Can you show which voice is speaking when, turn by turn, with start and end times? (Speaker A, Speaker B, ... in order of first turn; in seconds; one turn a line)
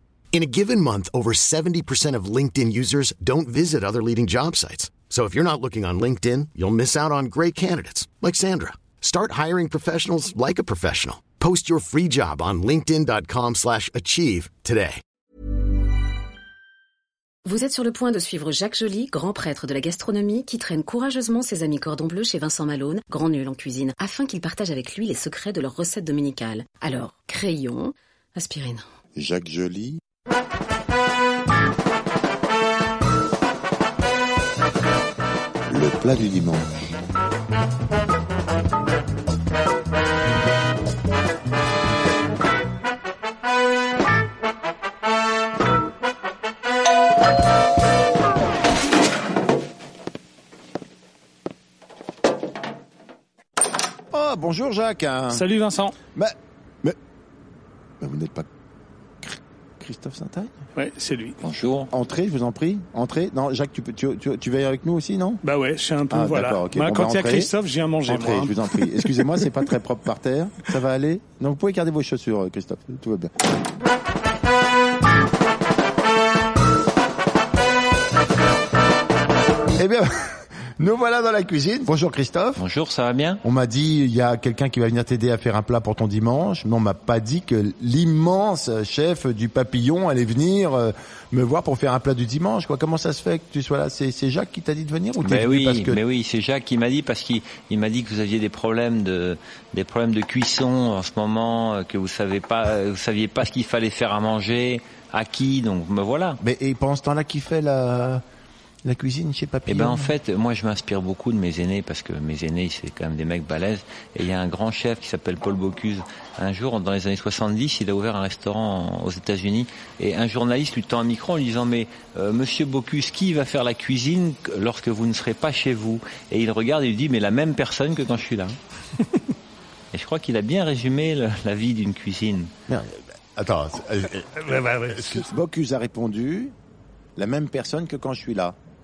Speaker A: 0.3-15.0
Speaker B: 17.4-28.9
Speaker C: 29.2-30.0
Speaker C: 35.6-36.9
Speaker C: 54.1-55.5
Speaker D: 55.3-56.0
Speaker C: 56.1-57.0
Speaker C: 58.0-58.5
Speaker C: 59.2-60.6
Speaker D: 60.8-61.4
Speaker E: 61.4-61.9
Speaker C: 61.9-65.4
Speaker D: 65.4-69.5
Speaker C: 66.1-67.5
Speaker C: 68.0-73.5
Speaker C: 79.8-82.6
Speaker E: 82.6-83.4
Speaker C: 83.4-96.0
Speaker E: 95.2-106.4
Speaker C: 106.4-108.2
Speaker C: 108.8-110.1
Speaker E: 109.7-128.6
Speaker E: 129.9-132.5
Speaker C: 132.7-136.5
Speaker D: 134.4-135.3
Speaker C: 137.2-138.6